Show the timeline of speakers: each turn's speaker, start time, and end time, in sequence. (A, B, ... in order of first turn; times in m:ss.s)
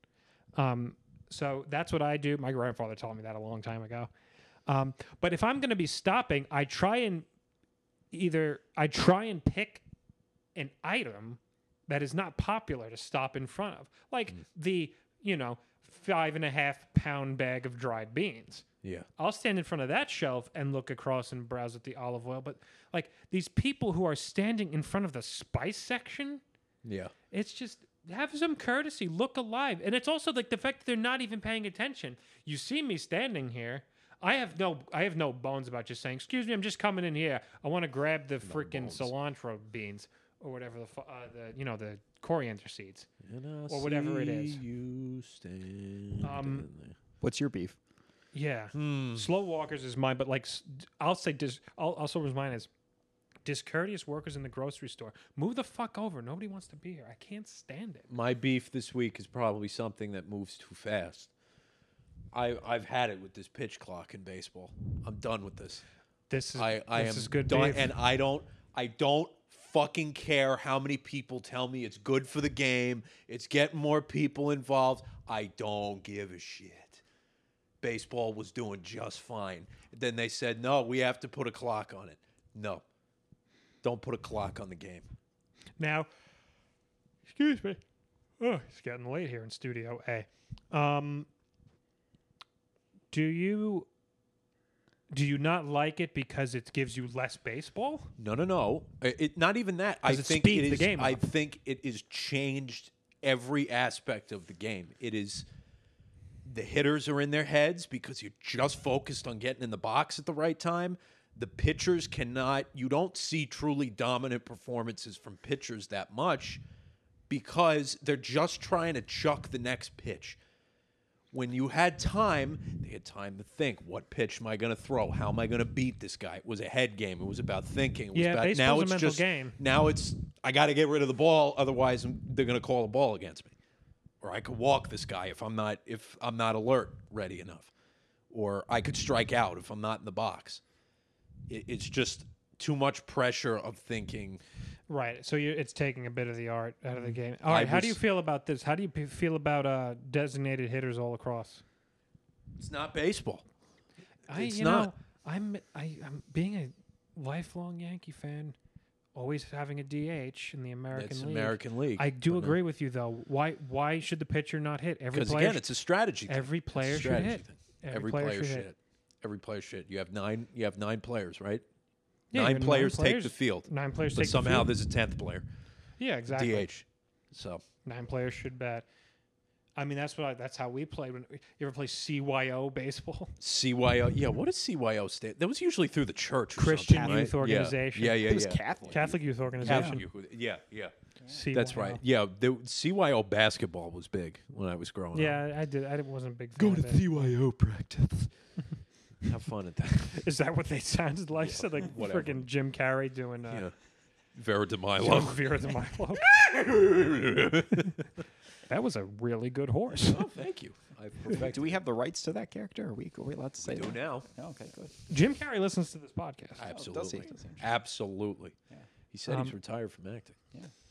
0:00.6-0:04.1 A
0:04.7-0:07.2 A
0:08.1-0:09.8 A
0:10.6-0:18.6 A
0:18.8-0:19.1 B
0:19.2-0:26.4 A
0:26.8-0:27.1 B
0:27.3-0:43.1 A
0:38.4-0:39.1 B
0:43.2-0:47.0 B
0:43.7-0:44.6 A
0:46.2-0:46.6 A
0:47.2-0:47.8 C
0:48.3-0:52.7 A
0:48.7-0:49.3 B
0:53.4-0:58.1 A
0:58.1-1:01.3 B
1:02.3-1:05.8 B
1:06.3-1:07.9 A
1:06.6-1:17.0 B
1:17.8-1:22.8 B
1:23.8-1:25.0 B
1:25.8-1:26.1 A
1:27.3-1:27.8 A
1:28.4-1:31.3 A
1:33.1-1:33.9 A
1:35.1-1:38.1 A
1:38.2-1:45.4 B
1:40.0-1:41.2 A
1:46.4-1:56.6 B
1:57.3-2:00.4 B
2:01.3-2:13.5 B
2:08.1-2:09.6 A
2:14.2-2:17.7 B
2:18.3-2:20.6 B
2:21.5-2:24.4 B
2:24.9-2:31.6 A
2:27.0-2:28.0 B
2:32.6-2:33.4 B
2:34.3-2:38.6 A
2:34.3-2:34.9 B
2:39.1-2:45.7 A
2:40.9-2:42.6 B
2:45.1-2:51.6 B
2:46.3-2:48.7 A
2:52.3-2:54.7 A
2:52.3-2:55.4 B
2:56.0-2:56.7 A
2:56.3-2:57.6 B
2:57.8-2:58.9 A
2:59.8-3:03.3 A
3:03.4-3:09.0 B
3:06.6-3:10.0 A
3:06.9-3:07.3 C
3:08.2-3:10.0 C
3:09.6-3:10.9 B
3:11.3-3:12.0 A
3:11.5-3:15.4 B
3:15.1-3:17.1 A
3:16.6-3:18.3 B
3:19.2-3:20.2 B
3:20.0-3:23.7 A
3:21.3-3:22.5 B
3:23.5-3:23.7 B
3:24.3-3:25.5 B
3:25.0-3:26.2 A
3:26.1-3:28.2 B
3:28.7-3:30.3 A
3:30.0-3:31.8 B
3:31.3-3:35.0 C
3:33.6-3:34.3 B
3:35.1-3:36.6 A
3:36.6-3:38.6 B
3:36.6-3:37.6 C
3:39.1-3:40.4 B
3:39.3-3:39.6 A